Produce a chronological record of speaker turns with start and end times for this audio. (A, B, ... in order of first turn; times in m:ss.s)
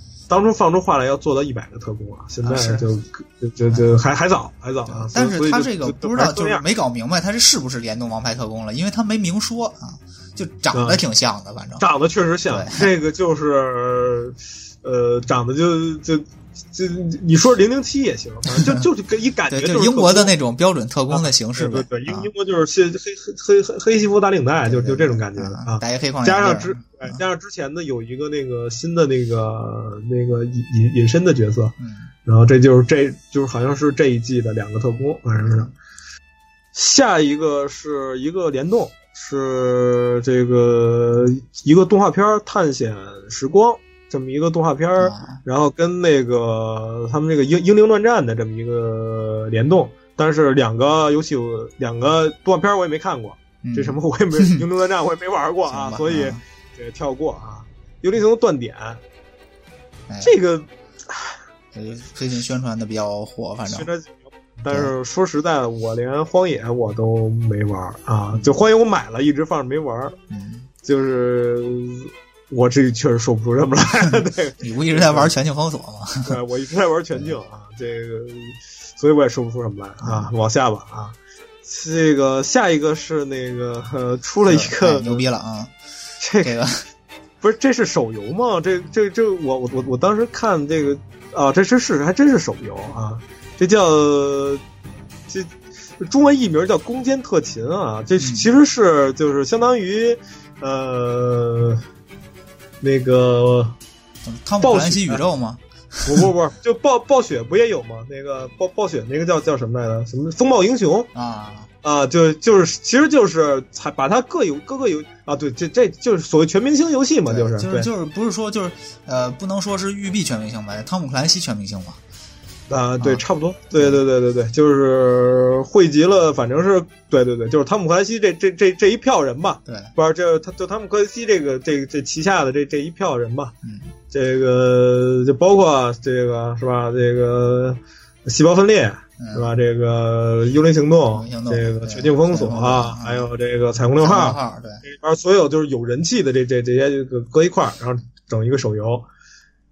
0:00.3-0:06.6 A
0:02.4-0:02.8 B
0:04.9-0:11.8 B
0:10.7-0:11.0 A
0:11.8-0:20.3 A
0:12.5-0:12.9 B
0:18.6-0:18.8 B
0:19.5-0:22.3 B
0:21.1-0:35.7 A
0:24.7-0:27.2 B
0:31.8-0:32.1 B
0:36.7-0:59.0 A
0:45.0-0:45.4 B
0:53.6-0:54.6 B
0:55.7-0:56.4 B
1:00.2-1:01.4 A
1:01.7-1:03.9 B
1:03.7-1:10.2 A
1:10.3-1:10.7 B
1:10.8-1:15.3 A
1:14.6-1:16.4 B
1:16.2-1:25.2 A
1:20.0-1:20.3 B
1:24.5-1:25.7 B
1:26.2-1:26.6 A
1:26.4-1:26.8 B
1:27.4-1:34.6 A
1:35.3-1:41.8 A
1:38.2-1:38.5 B
1:42.8-1:43.8 A
1:44.3-1:46.3 B
1:44.6-1:45.2 A
1:46.0-1:51.1 A
1:51.2-1:51.7 B
1:51.8-1:57.9 A
1:57.3-2:02.0 B
2:02.7-2:13.6 A
2:03.0-2:03.2 B
2:09.7-2:09.9 B
2:13.6-2:13.9 B
2:14.1-2:29.1 A
2:19.2-2:19.5 B
2:21.1-2:23.3 B
2:24.0-2:24.8 B